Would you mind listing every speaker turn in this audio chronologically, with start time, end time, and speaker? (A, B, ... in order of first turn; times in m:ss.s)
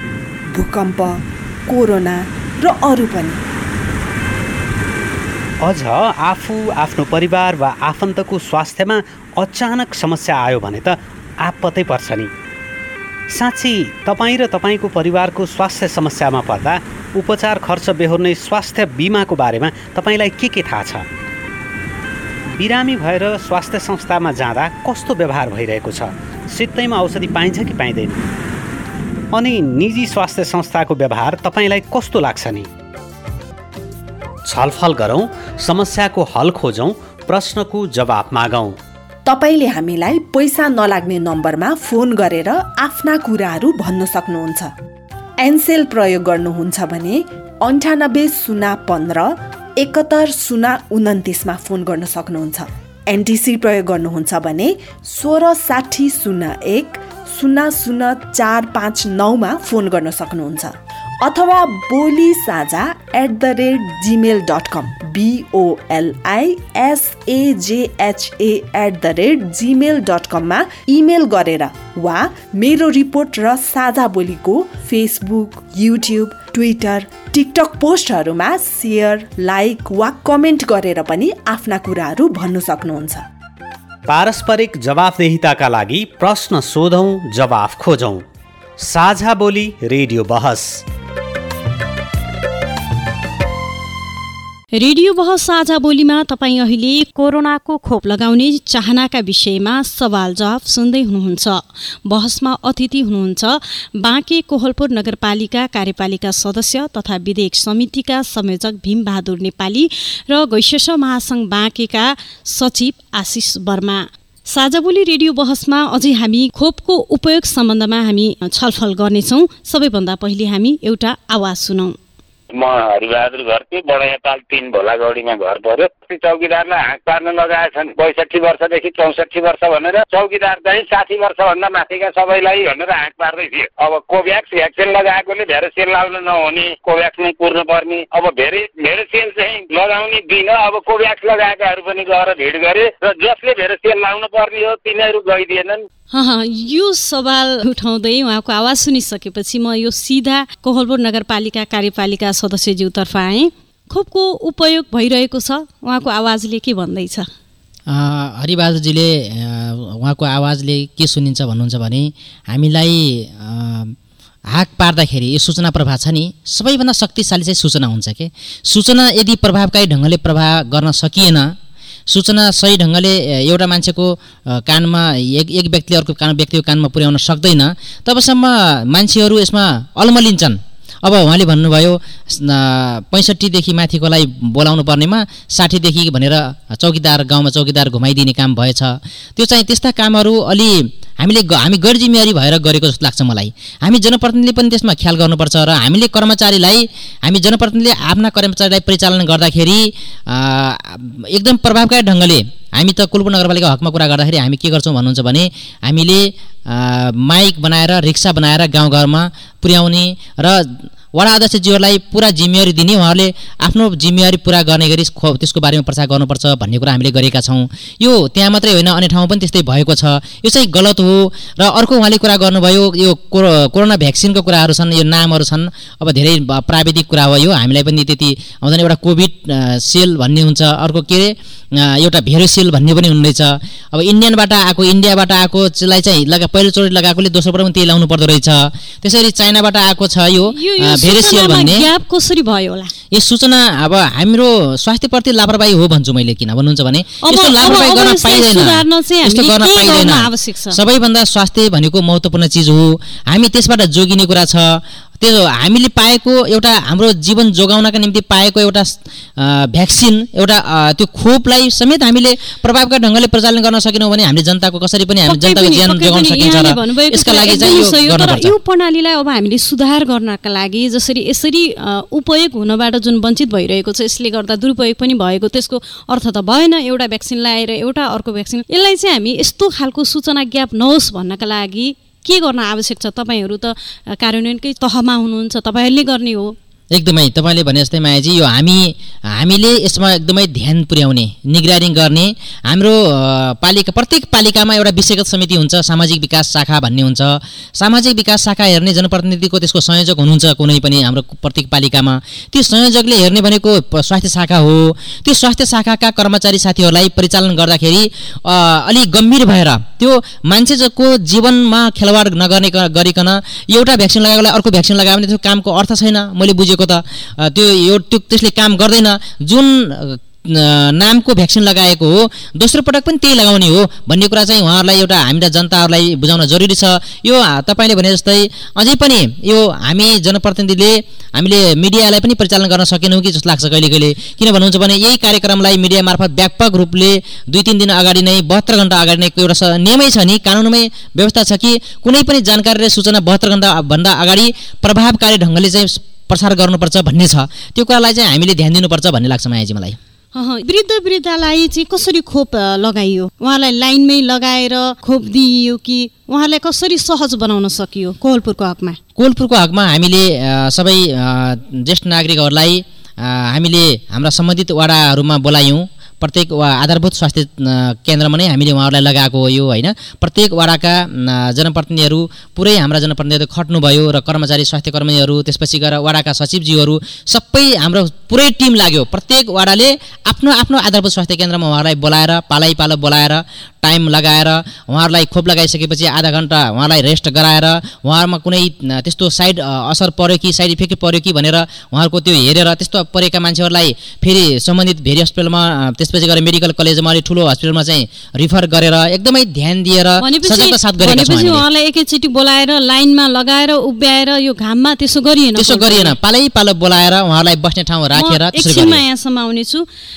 0:00.5-0:03.4 A
0:05.6-0:12.3 B
0:13.3-0:21.1 B
0:22.5-0:28.3 B
0:29.3-0:32.7 B
0:34.4-0:38.8 B
0:39.2-0:44.7 A
0:45.4-1:23.2 A
1:24.1-1:28.2 B
1:28.8-1:30.8 B
1:34.8-2:02.0 C
2:02.5-2:25.8 D
2:26.1-2:37.3 C
2:37.9-2:43.9 E
2:44.5-2:51.5 E
2:52.1-4:01.8 E
4:00.5-4:02.9 C
4:03.1-4:28.5 E
4:07.2-4:10.8 C
4:25.3-4:46.5 C
4:46.9-5:50.0 E
5:50.3-5:59.0 C
5:59.2-6:41.6 E
6:40.2-6:46.1 C
6:45.6-6:49.0 E
6:48.1-6:49.8 C